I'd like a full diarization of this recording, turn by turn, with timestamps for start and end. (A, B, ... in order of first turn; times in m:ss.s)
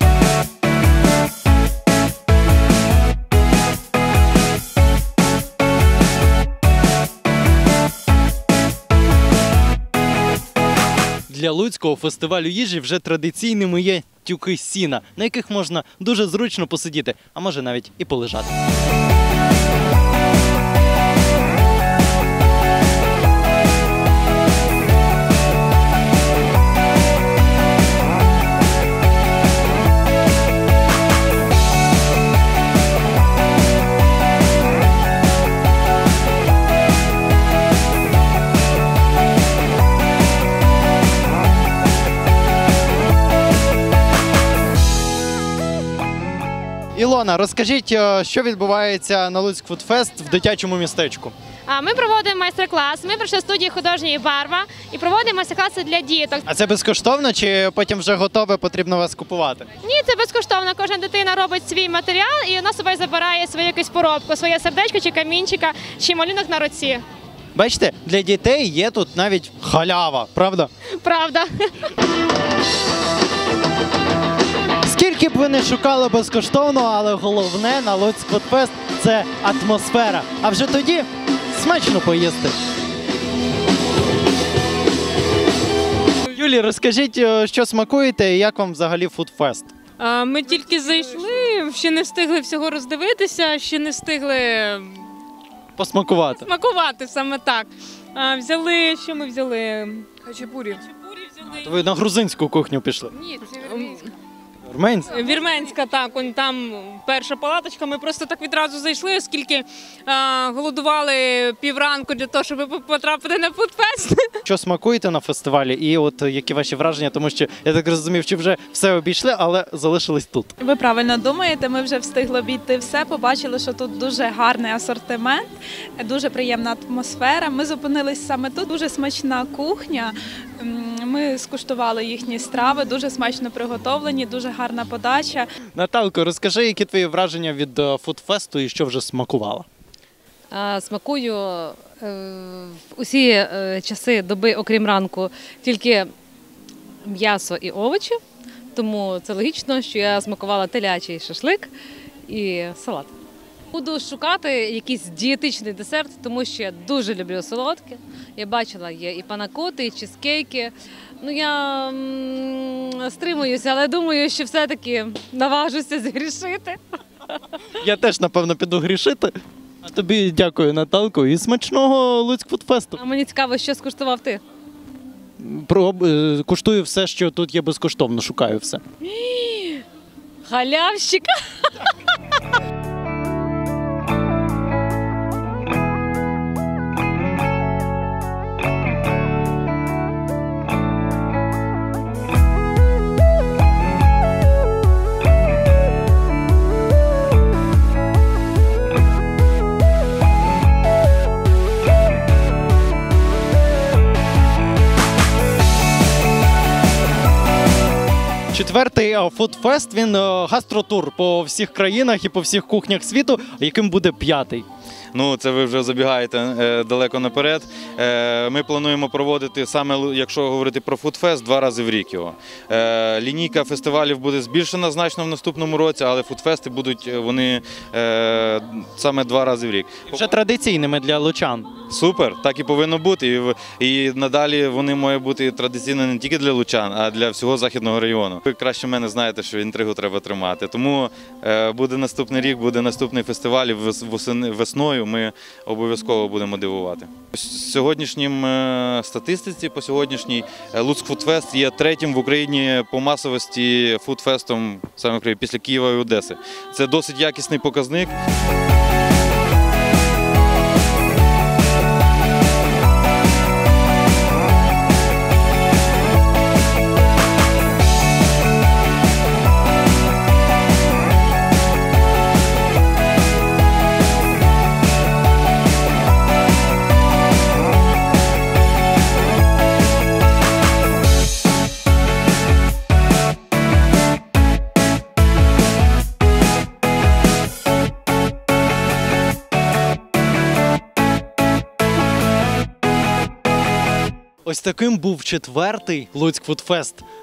0:11.3-0:18.5 A
0:47.0-0:51.3 A
0:51.7-0:56.4 B
0:56.5-0:59.7 A
0:59.8-1:07.0 B
1:07.6-1:10.7 A
1:11.0-1:11.7 B
1:14.8-1:22.6 A
1:26.3-1:29.7 A
1:30.0-1:35.0 C
1:35.8-1:36.5 A
1:36.3-1:40.1 C
1:40.6-1:41.7 C
1:41.6-1:43.1 A
1:43.6-1:44.0 C
1:44.7-1:45.2 A
1:45.1-1:54.3 C
1:54.4-2:00.6 A
2:00.6-2:05.5 D
2:06.0-2:15.5 D
2:15.8-2:19.7 A
2:20.5-2:26.1 E
2:27.0-2:28.2 E
2:28.7-2:31.7 E
2:32.3-2:33.1 E
2:33.7-2:46.8 E
2:47.8-2:53.0 A
2:53.0-2:54.4 E
2:55.4-2:58.8 A
2:59.2-2:59.8 C
3:00.4-3:01.3 E
3:28.5-3:34.6 A
3:35.1-3:50.2 F
3:50.1-3:51.7 A
3:51.9-4:18.1 F
4:54.4-4:57.0 A